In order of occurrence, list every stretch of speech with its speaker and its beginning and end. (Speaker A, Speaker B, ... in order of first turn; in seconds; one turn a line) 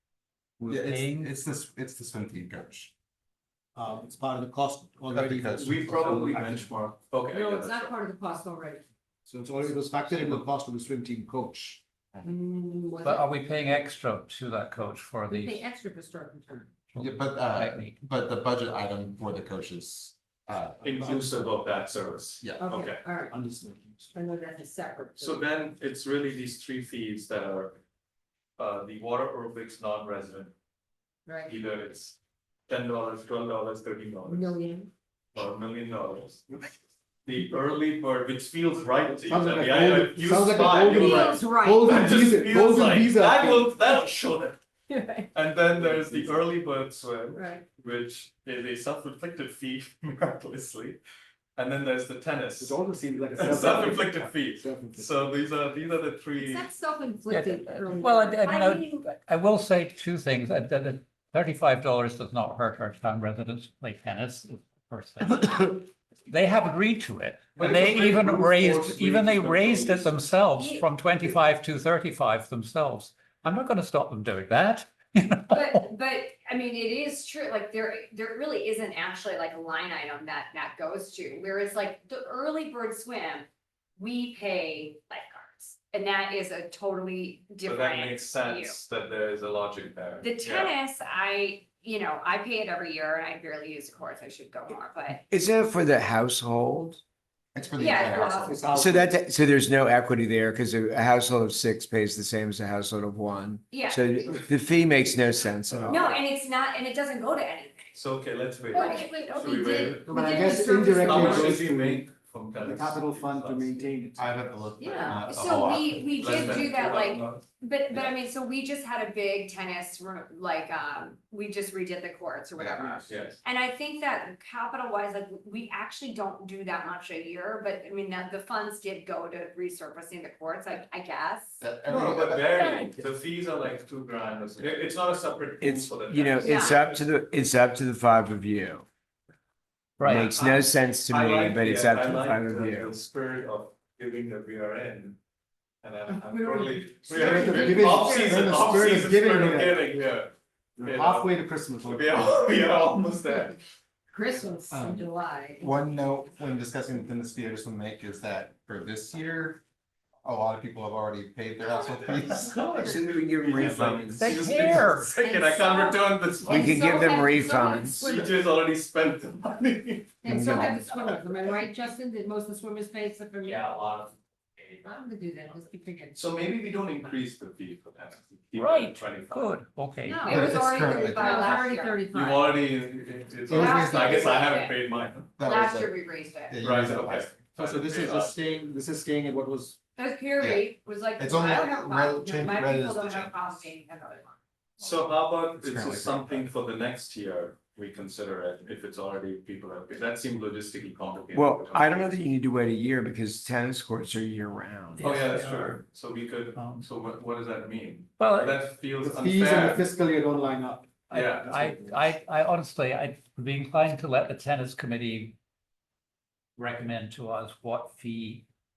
Speaker A: 0.6-1.3
Speaker B: 0.7-2.9
Speaker C: 3.8-6.7
Speaker B: 5.1-5.8
Speaker D: 5.6-7.9
Speaker E: 7.3-8.8
Speaker C: 9.3-11.8
Speaker E: 12.2-13.4
Speaker A: 13.0-15.6
Speaker E: 15.3-16.7
Speaker A: 16.9-18.0
Speaker B: 17.0-20.8
Speaker D: 20.8-23.0
Speaker C: 20.8-21.5
Speaker B: 22.4-22.8
Speaker E: 22.6-23.3
Speaker C: 23.3-24.1
Speaker E: 24.1-25.4
Speaker D: 25.2-27.8
Speaker D: 28.6-30.5
Speaker E: 31.3-31.5
Speaker D: 31.4-32.2
Speaker D: 32.7-34.6
Speaker E: 34.3-34.9
Speaker D: 35.3-36.5
Speaker D: 37.2-44.6
Speaker C: 39.1-43.8
Speaker E: 40.8-42.0
Speaker F: 41.0-41.4
Speaker E: 44.9-45.3
Speaker D: 45.3-51.0
Speaker C: 45.8-46.4
Speaker E: 47.3-47.6
Speaker D: 51.6-52.8
Speaker C: 52.6-55.1
Speaker D: 53.4-56.7
Speaker E: 56.4-58.7
Speaker A: 57.3-75.8
Speaker F: 58.5-59.0
Speaker D: 67.6-70.3
Speaker F: 70.6-70.9
Speaker F: 75.5-88.8
Speaker D: 87.6-90.8
Speaker F: 90.2-95.2
Speaker G: 95.3-97.0
Speaker B: 97.5-98.6
Speaker F: 97.8-98.7
Speaker D: 98.1-98.5
Speaker C: 98.4-99.2
Speaker G: 98.7-106.0
Speaker F: 103.7-104.1
Speaker C: 105.7-106.2
Speaker F: 105.9-108.0
Speaker D: 107.9-110.1
Speaker E: 108.7-111.4
Speaker F: 108.7-111.6
Speaker C: 109.9-112.1
Speaker D: 111.0-113.8
Speaker C: 112.6-115.1
Speaker B: 114.2-116.7
Speaker F: 114.8-131.6
Speaker D: 116.1-117.4
Speaker B: 117.9-118.2
Speaker B: 122.6-123.0
Speaker D: 123.1-123.4
Speaker B: 131.6-132.9
Speaker D: 131.9-137.0
Speaker A: 132.6-132.9
Speaker G: 135.6-138.8
Speaker F: 136.4-136.8
Speaker A: 140.0-140.3
Speaker G: 140.0-142.9
Speaker D: 140.2-145.2
Speaker D: 145.8-153.6
Speaker E: 146.1-148.4
Speaker C: 147.1-150.0
Speaker C: 150.8-152.3
Speaker E: 154.1-155.8
Speaker B: 154.7-155.0
Speaker B: 155.6-159.6
Speaker B: 160.2-162.9
Speaker D: 161.8-167.0
Speaker G: 162.5-164.8
Speaker A: 164.2-165.1
Speaker F: 165.2-168.1
Speaker G: 166.4-168.1
Speaker D: 168.0-170.5
Speaker E: 168.0-168.3
Speaker E: 170.2-173.7
Speaker G: 170.2-171.1
Speaker D: 173.4-174.9
Speaker E: 174.8-176.2
Speaker D: 176.1-179.5
Speaker A: 178.5-180.3
Speaker F: 180.0-182.0
Speaker B: 180.2-181.5
Speaker E: 180.3-182.7
Speaker D: 182.1-185.3
Speaker B: 183.5-184.3
Speaker F: 183.5-184.8
Speaker B: 185.4-187.4
Speaker F: 185.4-186.6
Speaker D: 186.6-188.4
Speaker C: 187.6-189.8
Speaker F: 189.9-194.4
Speaker B: 190.4-193.3
Speaker D: 194.8-202.1
Speaker B: 195.6-196.4
Speaker G: 201.3-205.4
Speaker D: 205.0-209.8
Speaker A: 205.1-205.8
Speaker A: 206.6-206.9
Speaker A: 208.2-208.6
Speaker C: 209.0-212.1
Speaker A: 211.1-215.4
Speaker D: 211.1-211.5
Speaker A: 216.6-218.4